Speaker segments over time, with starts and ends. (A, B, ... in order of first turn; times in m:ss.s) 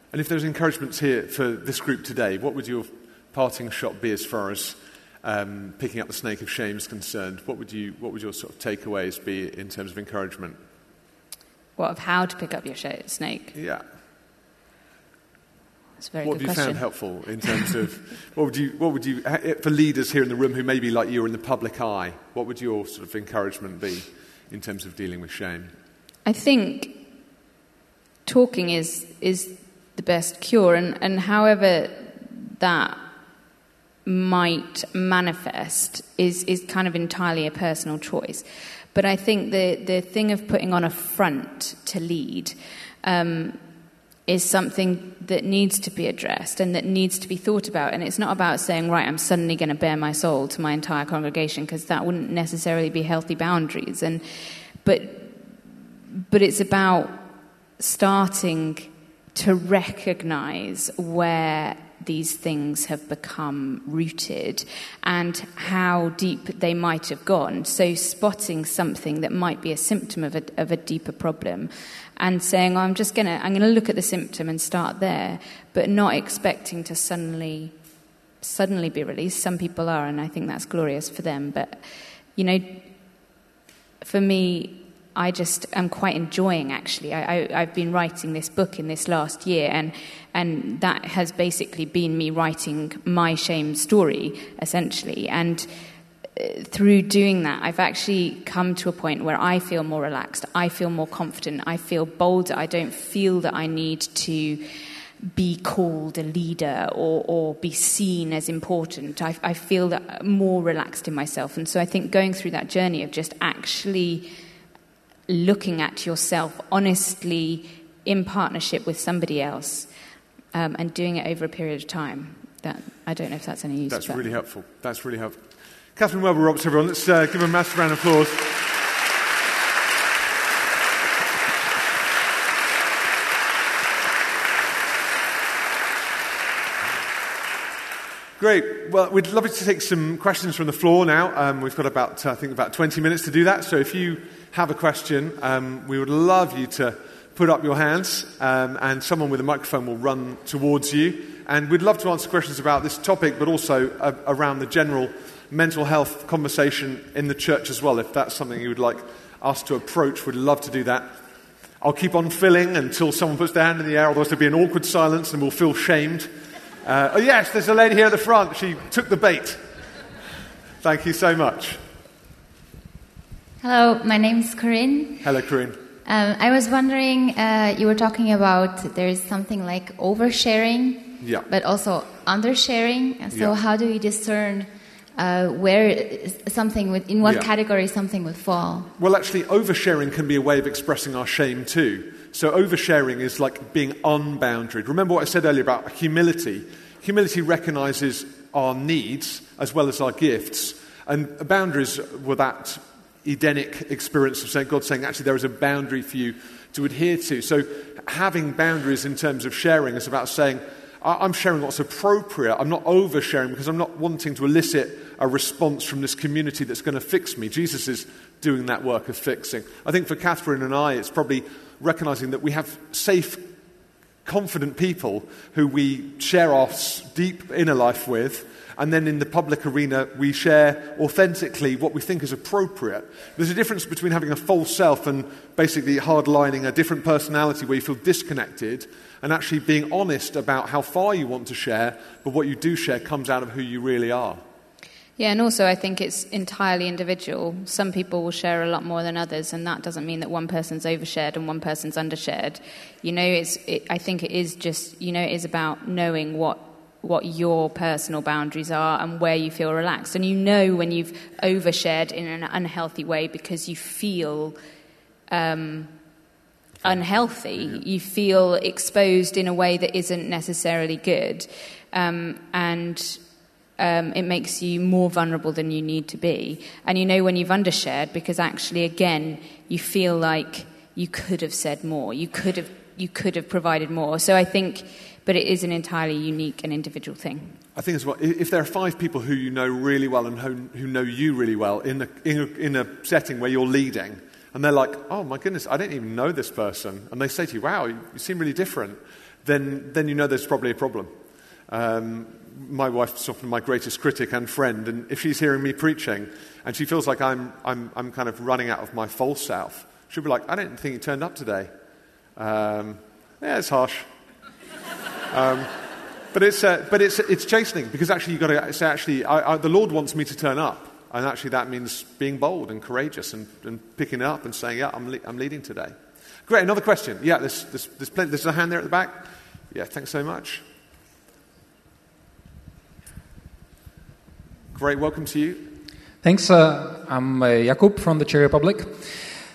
0:00.1-0:10.6 A
0:11.8-0:13.5 B
0:13.5-0:13.8 A
0:16.0-0:17.8 B
0:16.2-0:25.7 A
0:26.2-0:27.0 B
0:28.2-0:33.0 B
0:34.0-0:43.6 B
0:44.3-0:55.6 B
0:56.3-0:57.2 B
0:57.8-1:17.8 B
1:18.4-1:21.8 B
1:22.4-1:22.9 B
1:24.0-1:35.7 B
1:36.3-1:44.6 B
1:45.3-1:54.3 B
1:55.3-1:59.9 B
2:00.5-2:04.3 B
2:03.9-2:08.7 A
2:18.4-2:41.2 A
2:41.8-2:46.3 A
2:46.8-2:49.6 A
2:50.8-2:51.8 A
2:53.6-2:55.3 C
2:55.2-2:55.8 A
2:56.0-3:08.9 C
3:01.2-3:01.5 A
3:07.2-3:07.5 A
3:09.0-3:43.5 A
3:44.2-4:04.4 A
4:05.2-4:24.6 B
4:25.3-4:25.9 B
4:26.8-4:33.2 B
4:33.8-4:47.6 B
4:47.8-5:01.1 A
5:01.7-5:11.7 A
5:12.4-5:14.1 A
5:15.3-5:15.7 A
5:16.3-5:26.0 A
5:26.5-5:30.6 A
5:34.7-5:35.6 A
5:36.2-5:39.2 D